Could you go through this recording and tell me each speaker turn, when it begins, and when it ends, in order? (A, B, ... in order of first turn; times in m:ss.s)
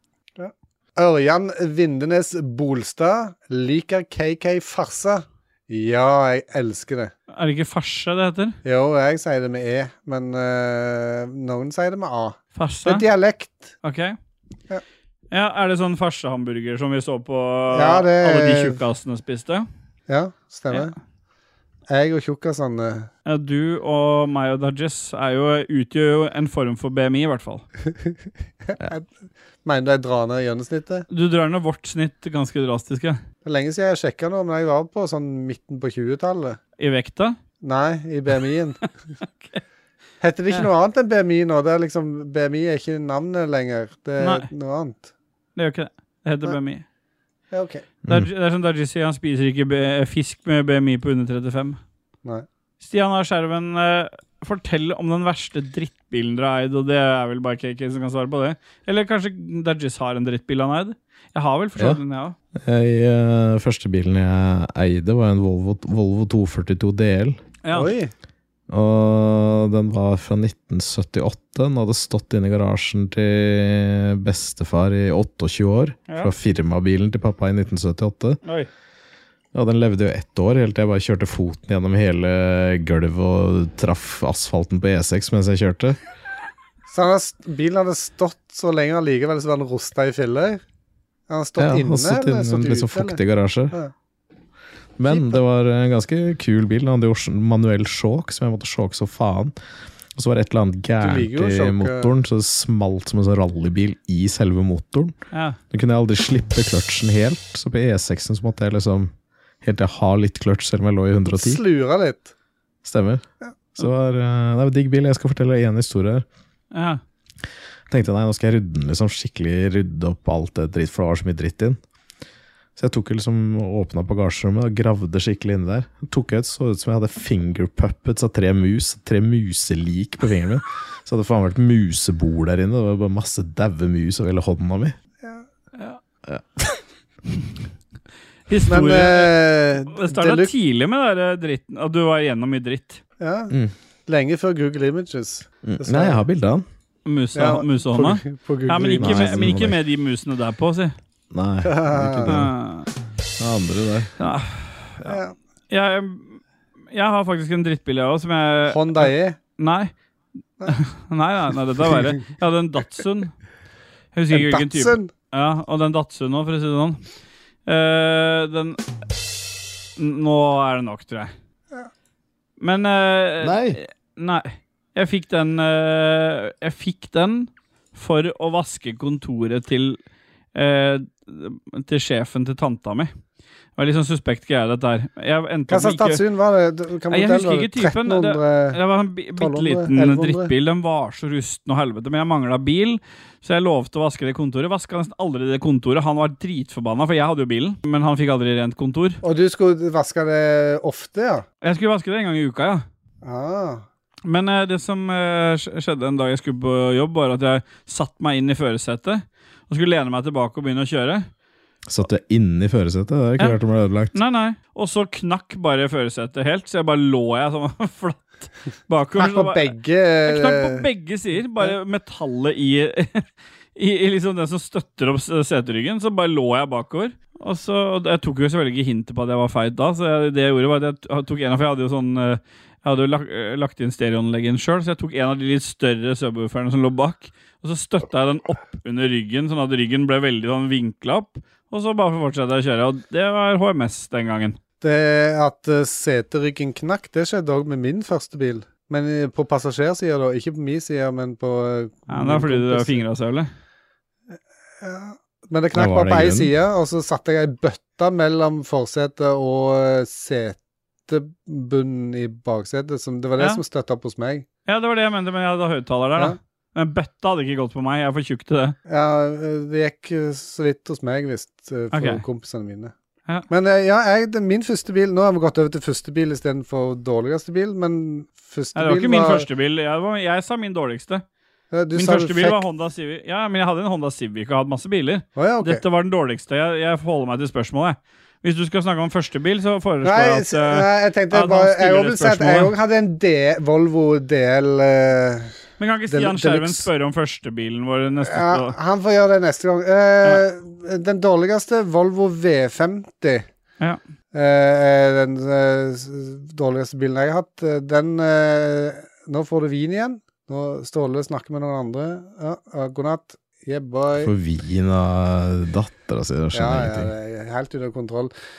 0:00.4-0:07.1 A
0:07.3-0:08.6 B
0:08.6-0:13.7 A
0:12.6-0:13.0 B
0:13.8-0:14.1 B
0:15.3-0:19.6 B
0:17.7-0:18.8 A
0:20.1-0:20.9 A
0:21.9-0:23.1 A
0:23.2-0:27.6 B
0:28.6-0:29.1 A
0:29.6-0:31.1 A
0:31.1-0:33.2 B
0:33.4-0:36.6 A
0:36.8-0:37.4 B
0:37.6-0:38.9 A
0:40.2-0:45.1 A
0:44.2-0:44.5 B
0:45.6-0:46.8 B
0:47.5-0:47.9 A
0:48.1-0:51.8 B
0:52.8-1:02.4 B
1:02.5-1:07.4 C
1:07.6-1:07.9 B
1:07.7-1:08.1 A
1:08.7-1:18.4 C
1:18.4-1:18.7 B
1:19.5-1:26.0 C
1:26.9-1:30.6 A
1:31.3-1:33.2 A
1:31.6-1:33.8 C
1:35.0-1:39.5 C
1:35.0-1:35.4 A
1:40.1-1:45.1 C
1:41.0-1:42.1 A
1:45.3-1:45.6 B
1:45.7-1:51.6 C
1:51.3-1:52.3 A
1:52.8-1:53.2 C
1:53.8-1:56.2 C
1:56.7-1:57.0 B
1:57.9-2:01.8 C
2:02.8-2:15.0 C
2:16.2-2:16.8 C
2:18.5-2:23.0 B
2:18.7-2:20.5 A
2:23.2-2:23.5 A
2:24.0-2:26.2 A
2:25.6-2:26.6 C
2:27.0-2:30.9 B
2:27.3-2:29.5 A
2:29.0-2:29.8 C
2:31.3-2:32.5 C
2:31.6-2:32.4 A
2:32.3-2:32.9 B
2:33.4-2:34.1 C
2:34.2-2:35.2 B
2:35.0-2:35.3 A
2:35.7-2:36.4 B
2:36.9-2:39.9 B
2:38.7-2:39.4 A
2:40.7-2:43.3 B
2:44.1-2:47.0 B
2:44.3-2:45.1 A
2:47.6-2:48.8 B
2:50.0-2:51.3 B
2:52.6-3:00.0 B
2:53.4-2:53.8 C
3:00.5-3:03.1 B
3:03.8-3:06.2 B
3:05.7-3:08.8 A
3:07.1-3:19.2 B
3:09.4-3:10.5 A
3:19.2-3:21.4 A
3:21.6-3:22.8 B
3:23.2-3:23.8 A
3:24.2-3:31.3 B
3:31.9-3:34.2 C
3:34.1-3:39.7 B
3:39.2-3:40.9 A
3:40.3-4:04.6 B
4:04.8-4:13.0 A
4:12.1-4:13.5 B
4:14.8-4:24.4 A
4:15.7-4:16.5 C
4:24.7-4:28.8 B
4:28.9-4:32.9 A
4:31.9-4:32.2 B
4:33.5-4:39.5 A
4:38.7-4:41.2 B
4:41.7-4:42.6 A
4:41.9-4:52.7 B
4:45.4-4:45.8 A
4:50.0-4:55.5 A
4:55.8-4:58.7 B
4:56.1-4:56.9 A
4:58.2-5:03.4 A
5:04.3-5:14.3 A
5:14.1-5:17.1 C
5:16.5-5:18.3 A